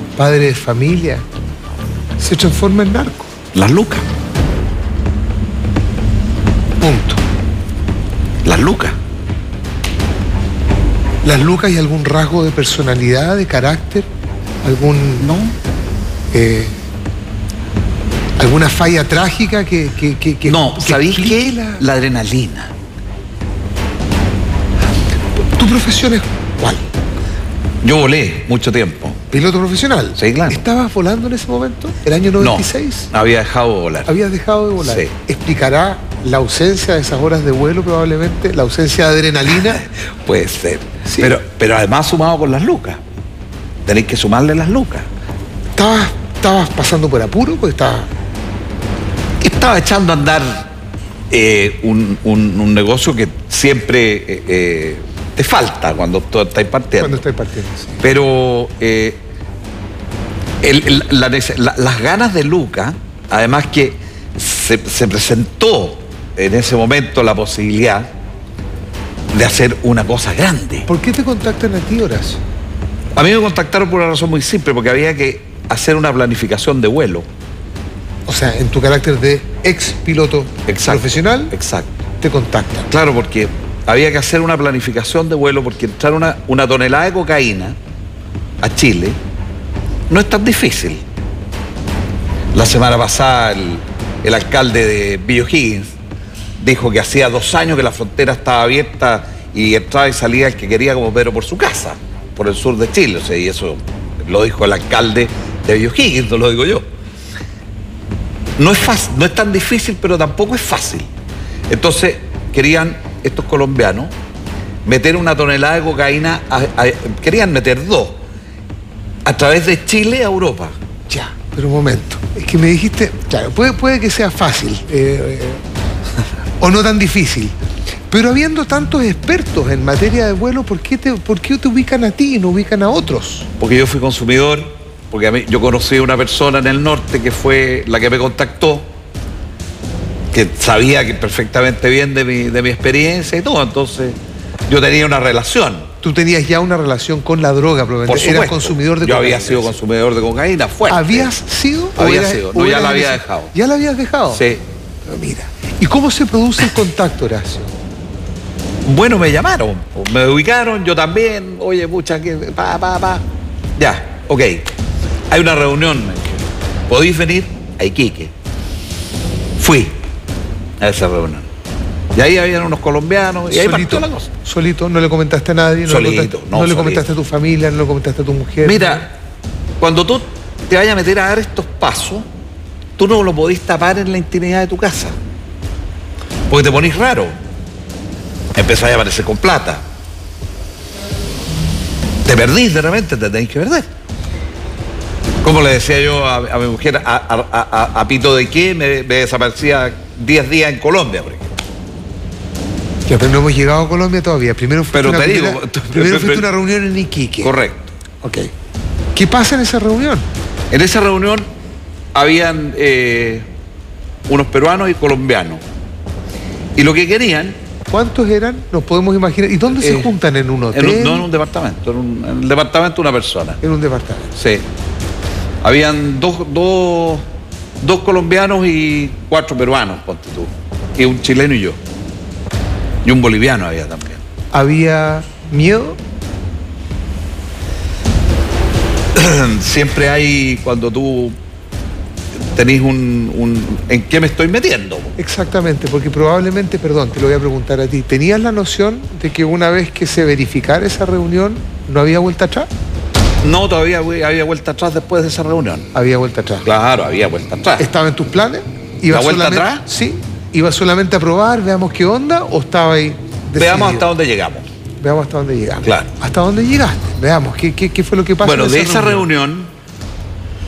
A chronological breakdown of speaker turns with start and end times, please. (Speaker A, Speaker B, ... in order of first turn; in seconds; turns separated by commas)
Speaker A: 0.2-1.2, Speaker A: 2.2-3.3, Speaker B: 3.5-4.0, Speaker A: 6.8-7.2, Speaker B: 8.4-9.0, Speaker A: 11.2-14.1, Speaker A: 14.6-15.3, Speaker B: 15.2-15.6, Speaker A: 16.3-16.8, Speaker A: 18.4-21.8, Speaker B: 20.4-22.7, Speaker A: 25.4-26.9, Speaker B: 27.8-29.2, Speaker A: 29.3-33.1, Speaker B: 30.2-30.6, Speaker B: 32.4-34.1, Speaker A: 34.1-39.9, Speaker B: 34.8-35.1, Speaker B: 40.2-43.0, Speaker A: 41.1-41.3, Speaker B: 43.9-45.1, Speaker A: 45.8-48.1, Speaker B: 49.4-50.7, Speaker B: 51.3-57.2, Speaker A: 57.0-58.0, Speaker B: 58.0-59.2, Speaker B: 60.6-68.1, Speaker B: 69.3-70.9, Speaker A: 70.9-72.4, Speaker B: 73.2-77.3, Speaker A: 78.3-81.5, Speaker B: 80.7-81.9, Speaker A: 82.2-82.9, Speaker B: 82.9-87.8, Speaker B: 88.6-89.2, Speaker B: 90.1-91.0, Speaker B: 92.5-96.0, Speaker B: 96.6-106.8, Speaker B: 108.6-111.1, Speaker B: 111.7-114.1, Speaker B: 114.8-118.2, Speaker B: 119.3-120.8, Speaker A: 121.1-125.6, Speaker A: 126.6-127.6, Speaker A: 128.1-133.5, Speaker B: 133.6-138.9, Speaker B: 140.3-145.9, Speaker A: 146.0-149.8, Speaker B: 148.1-151.3, Speaker A: 150.9-154.4, Speaker B: 152.0-153.5, Speaker B: 154.3-154.6, Speaker A: 155.1-157.7, Speaker B: 158.8-163.2, Speaker B: 163.8-164.7, Speaker B: 165.3-168.3, Speaker B: 169.6-170.0, Speaker B: 170.8-171.5, Speaker B: 172.2-174.3, Speaker A: 173.5-179.1, Speaker B: 175.9-177.0, Speaker B: 178.6-179.1, Speaker B: 179.8-182.2, Speaker B: 183.0-185.2, Speaker B: 186.5-187.3, Speaker B: 188.6-189.8, Speaker B: 192.2-193.9, Speaker B: 195.4-201.5, Speaker A: 203.1-207.5, Speaker B: 204.9-206.5, Speaker B: 207.4-207.9, Speaker A: 208.2-208.5, Speaker A: 209.2-210.3, Speaker B: 210.7-211.4, Speaker B: 212.2-213.5, Speaker B: 214.3-215.6, Speaker B: 216.8-217.6, Speaker A: 217.9-221.3, Speaker B: 219.8-220.1, Speaker B: 220.7-223.6, Speaker A: 223.6-224.3, Speaker B: 224.4-224.6, Speaker B: 225.6-227.2, Speaker B: 227.8-231.8, Speaker B: 233.0-234.2, Speaker A: 234.5-236.0, Speaker B: 239.2-241.3, Speaker B: 242.6-245.2, Speaker A: 245.2-252.7, Speaker B: 253.4-255.9, Speaker A: 255.9-256.7, Speaker B: 256.6-257.9, Speaker A: 257.8-264.1, Speaker B: 259.1-259.8, Speaker B: 263.6-264.7, Speaker A: 265.0-269.3, Speaker B: 265.8-266.1, Speaker B: 268.4-269.7